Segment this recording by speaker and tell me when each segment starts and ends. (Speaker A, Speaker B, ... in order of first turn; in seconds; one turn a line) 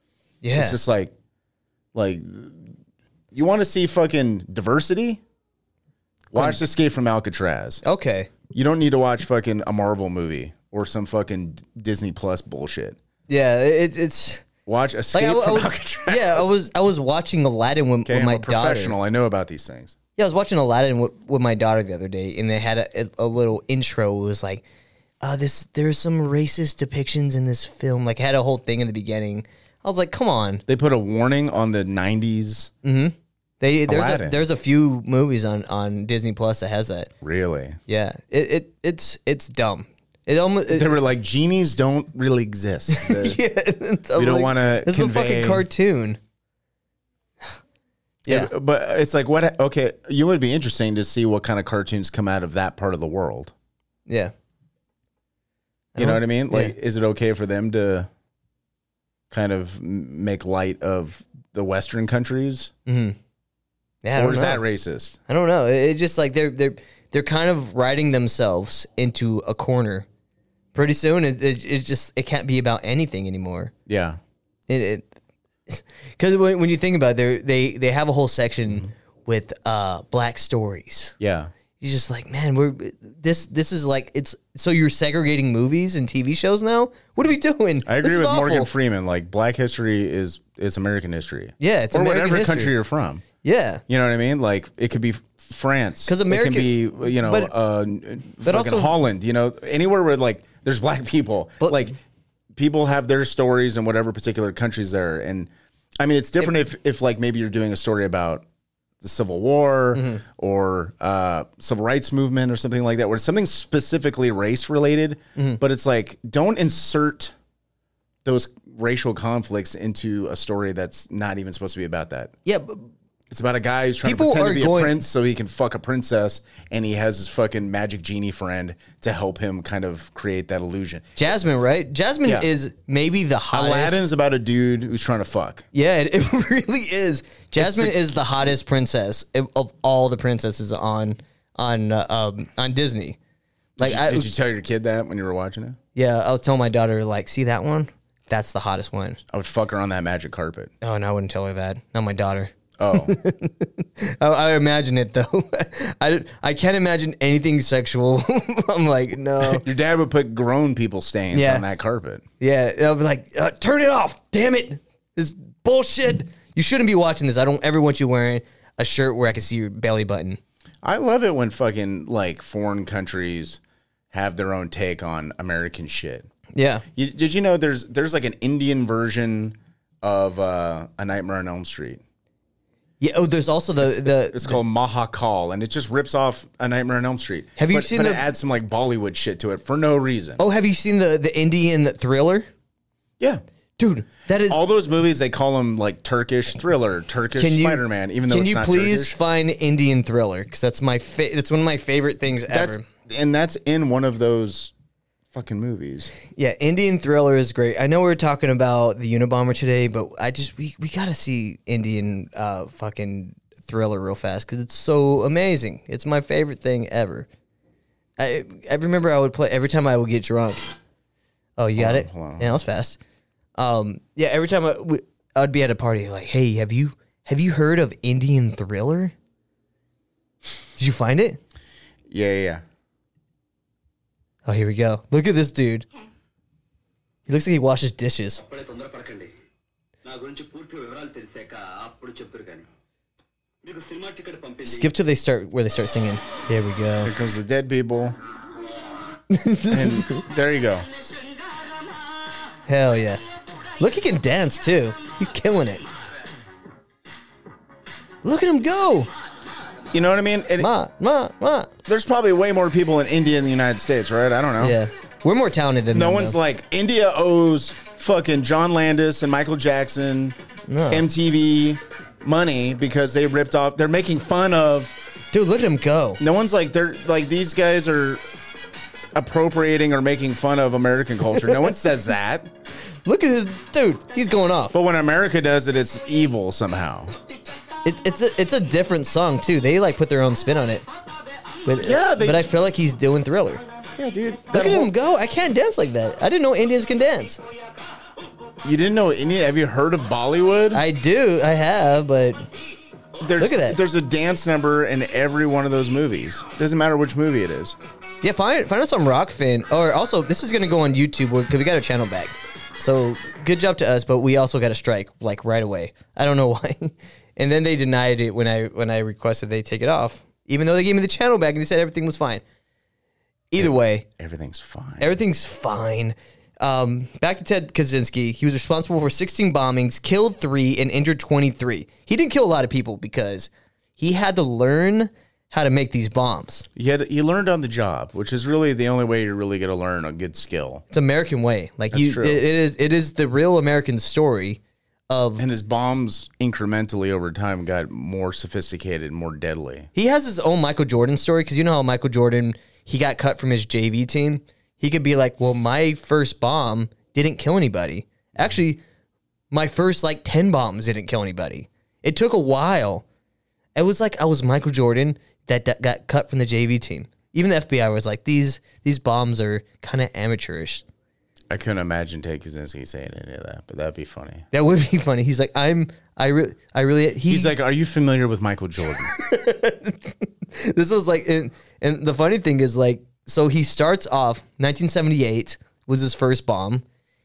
Speaker A: 0.4-0.8
Speaker B: 0.6-1.1
Speaker B: 1.9-2.7
Speaker B: 3.3-5.2
Speaker B: 6.3-7.8
Speaker A: 6.3-6.6
Speaker A: 7.8-8.3
Speaker B: 8.5-13.0
Speaker A: 13.3-14.4
Speaker B: 14.7-16.5
Speaker A: 15.1-18.9
Speaker B: 18.1-20.0
Speaker A: 20.1-24.6
Speaker A: 25.2-30.6
Speaker B: 30.7-32.7
Speaker A: 32.8-37.1
Speaker B: 33.9-34.4
Speaker B: 37.2-37.8
Speaker A: 37.9-40.9
Speaker B: 40.7-43.4
Speaker A: 42.9-46.2
Speaker B: 44.1-45.7
Speaker A: 48.2-48.5
Speaker B: 48.3-53.5
Speaker A: 54.1-54.3
Speaker A: 55.9-56.7
Speaker B: 56.0-58.1
Speaker B: 59.3-62.7
Speaker A: 62.9-63.2
Speaker A: 64.0-64.6
Speaker B: 64.1-65.2
Speaker A: 65.3-70.1
Speaker A: 70.8-73.7
Speaker B: 73.9-74.2
Speaker A: 74.7-75.1
Speaker A: 75.7-81.2
Speaker B: 81.2-81.5
Speaker A: 81.8-88.7
Speaker B: 87.8-93.2
Speaker A: 91.6-92.8
Speaker A: 93.4-93.8
Speaker B: 93.9-102.0
Speaker A: 96.1-97.5
Speaker A: 98.4-98.9
Speaker A: 101.6-101.9
Speaker B: 102.5-108.4
Speaker B: 109.0-117.3
Speaker A: 109.9-110.2
Speaker A: 115.4-115.6
Speaker B: 118.2-122.3
Speaker A: 122.5-122.9
Speaker B: 123.3-131.1
Speaker A: 124.0-125.0
Speaker A: 131.2-134.0
Speaker B: 133.5-135.7
Speaker A: 135.7-143.2
Speaker B: 137.6-138.0
Speaker B: 143.8-145.8
Speaker A: 143.8-144.3
Speaker A: 145.9-149.2
Speaker B: 149.3-150.7
Speaker A: 150.8-159.6
Speaker B: 152.8-153.1
Speaker B: 159.4-162.2
Speaker A: 161.3-161.6
Speaker A: 162.4-170.4
Speaker B: 170.8-173.6
Speaker B: 174.1-176.3
Speaker A: 176.5-176.8
Speaker B: 176.9-182.0
Speaker A: 183.0-184.6
Speaker B: 183.8-190.4
Speaker A: 187.6-188.2
Speaker A: 190.4-192.5
Speaker A: 193.8-194.6
Speaker B: 194.5-199.2
Speaker A: 197.4-202.9
Speaker B: 202.5-204.7
Speaker B: 205.3-206.1
Speaker A: 206.3-217.3
Speaker A: 218.2-220.6
Speaker A: 221.6-223.0
Speaker B: 221.8-222.6
Speaker A: 223.6-229.1
Speaker A: 230.8-231.4
Speaker B: 232.1-232.6
Speaker A: 234.5-235.9
Speaker A: 237.3-238.4
Speaker C: 238.4-239.3
Speaker C: 240.0-242.7
Speaker C: 243.6-244.9
Speaker A: 244.6-247.1
Speaker B: 247.0-248.2
Speaker A: 249.3-250.2
Speaker B: 249.7-250.9
Speaker A: 252.7-253.2
Speaker A: 253.8-255.8
Speaker A: 258.2-259.1
Speaker B: 259.9-260.7
Speaker A: 260.6-261.7
Speaker B: 261.9-264.8
Speaker A: 264.6-266.4
Speaker B: 265.9-270.4
Speaker A: 270.7-271.1
Speaker B: 270.9-275.0
Speaker A: 275.3-276.2
Speaker B: 276.2-278.2
Speaker B: 279.1-282.5
Speaker A: 281.4-281.7
Speaker A: 283.1-284.7
Speaker B: 284.7-287.1
Speaker A: 287.9-290.9
Speaker A: 291.6-293.6
Speaker B: 291.8-292.5
Speaker B: 294.0-294.9
Speaker A: 294.5-297.4
Speaker B: 298.6-300.8
Speaker A: 300.7-302.5
Speaker B: 303.2-307.8
Speaker A: 303.4-303.8
Speaker A: 308.2-322.4
Speaker A: 323.5-324.1
Speaker B: 323.6-325.2
Speaker A: 325.0-336.7
Speaker B: 336.8-340.9
Speaker A: 340.9-345.5
Speaker B: 341.9-342.4
Speaker B: 345.4-349.9
Speaker A: 349.9-358.8
Speaker A: 359.5-363.0
Speaker A: 363.8-370.8
Speaker B: 371.5-374.5
Speaker A: 374.5-377.5
Speaker B: 377.3-379.1
Speaker A: 379.1-386.8